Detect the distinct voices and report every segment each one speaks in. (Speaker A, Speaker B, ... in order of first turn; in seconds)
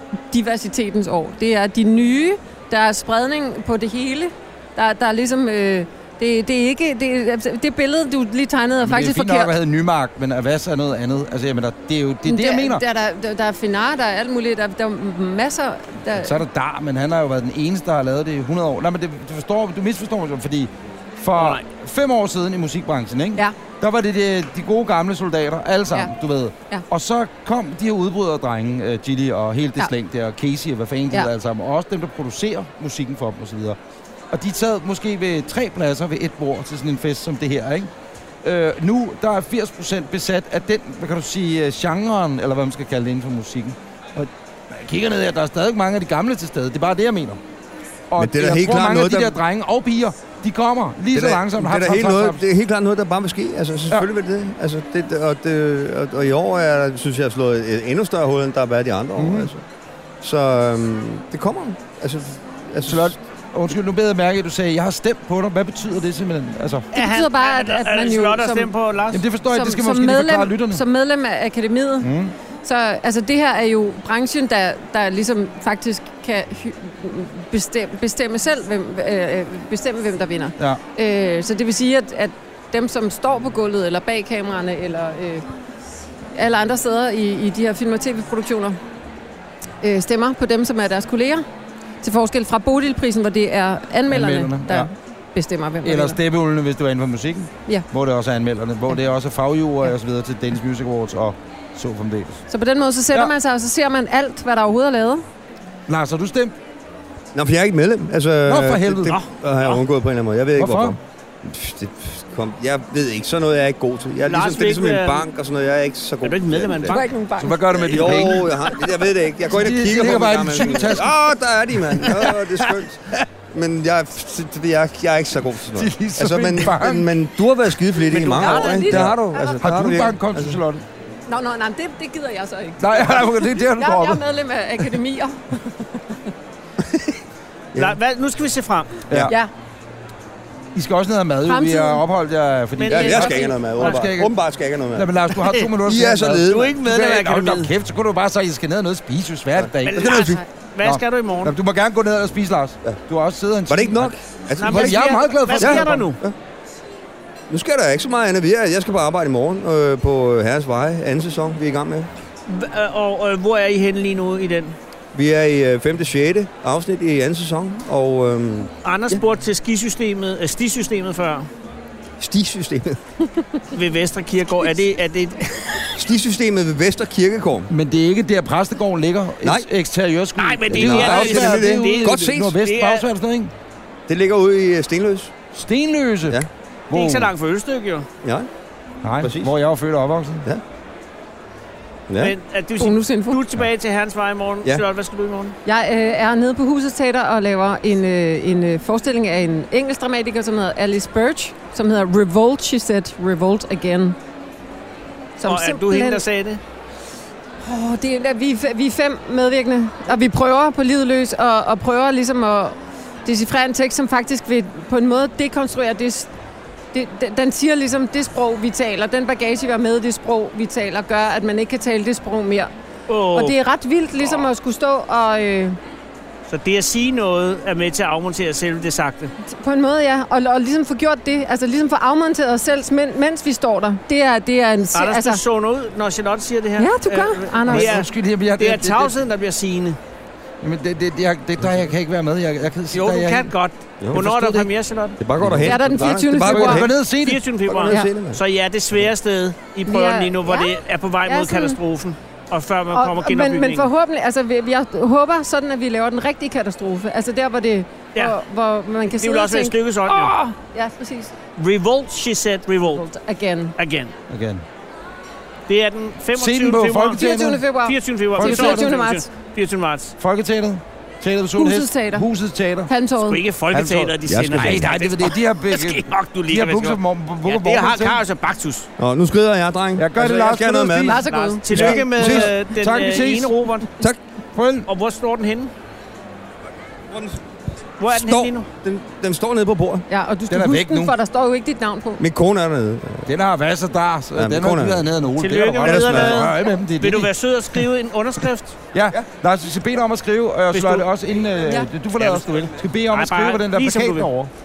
Speaker A: 0.3-9.6, 12.2-16.4, 66.9-68.7, 69.5-72.1, 72.6-85.5, 86.3-88.8, 89.8-91.4, 92.0-96.2, 102.5-105.2, 116.9-118.1, 128.3-129.6, 131.3-136.3, 141.4-142.1, 192.8-193.4, 195.7-204.2, 205.4-206.2, 207.6-216.3, 216.9-222.7, 223.3-225.8, 229.4-235.4, 236.8-237.9, 245.6-246.9, 249.9-251.8, 252.9-261.3, 262.9-263.8, 267.1-269.3, 271.6-272.3, 272.9-273.4, 281.0-282.0, 290.1-292.2
Speaker B: 8.8-12.8, 16.2-33.8, 34.3-37.9, 38.4-47.4, 48.1-52.4, 59.2-59.5, 62.9-66.9, 69.1-70.8, 72.0-72.3, 94.1-94.9, 95.8-102.4, 105.9-106.5, 108.5-109.2, 110.6-111.0, 117.4-118.6, 119.5-121.2, 125.8-127.1, 128.8-130.8, 132.8-134.2, 139.1-139.3, 140.8-144.3, 144.9-156.1, 177.7-183.5, 185.5-187.3, 189.0-190.5, 237.7-239.1, 240.6-243.5, 244.1-244.7, 245.4-245.8, 246.4-247.4, 264.3-264.6, 266.4-267.6, 268.4-268.9, 270.2-272.9, 273.7-278.2, 280.0-281.2, 281.7-283.5, 284.6-284.9, 290.5-291.1, 293.3-297.3, 298.9-304.5
Speaker C: 21.4-21.6, 66.9-69.2, 109.1-109.8, 114.3-115.2, 116.2-117.1, 128.1-128.8, 137.8-139.1, 142.8-143.9, 146.5-147.7, 149.8-151.5, 154.6-156.2, 162.5-164.8, 168.8-171.5, 173.7-175.9, 180.4-183.1, 186.9-188.1, 192.2-195.6, 205.4-206.6, 223.1-223.6, 226.5-229.3, 234.9-240.0, 242.9-245.2, 247.2-253.9, 259.2-260.3, 261.6-263.1, 263.8-264.1, 265.7-267.2, 267.8-270.1, 273.2-278.9, 281.3-283.9, 284.9-285.7, 288.0-288.7, 295.4-298.8, 300.7-301.1, 302.2-304.3
Speaker D: 48.2-49.4, 51.1-59.6, 60.2-63.1, 107.3-117.0, 117.8-130.6, 136.8-137.2, 142.9-145.1, 145.8-146.8, 149.6-150.3, 153.7-156.3, 157.5-162.1, 165.1-169.2, 172.2-173.0, 176.0-177.7, 180.7-182.6, 184.1-185.3, 188.2-188.5, 189.2-189.6, 192.1-192.4, 245.2-246.9, 247.7-248.4, 274.3-274.9, 279.0-282.5, 287.1-287.4, 288.1-290.1, 292.2-293.3, 294.4-295.1, 295.8-296.5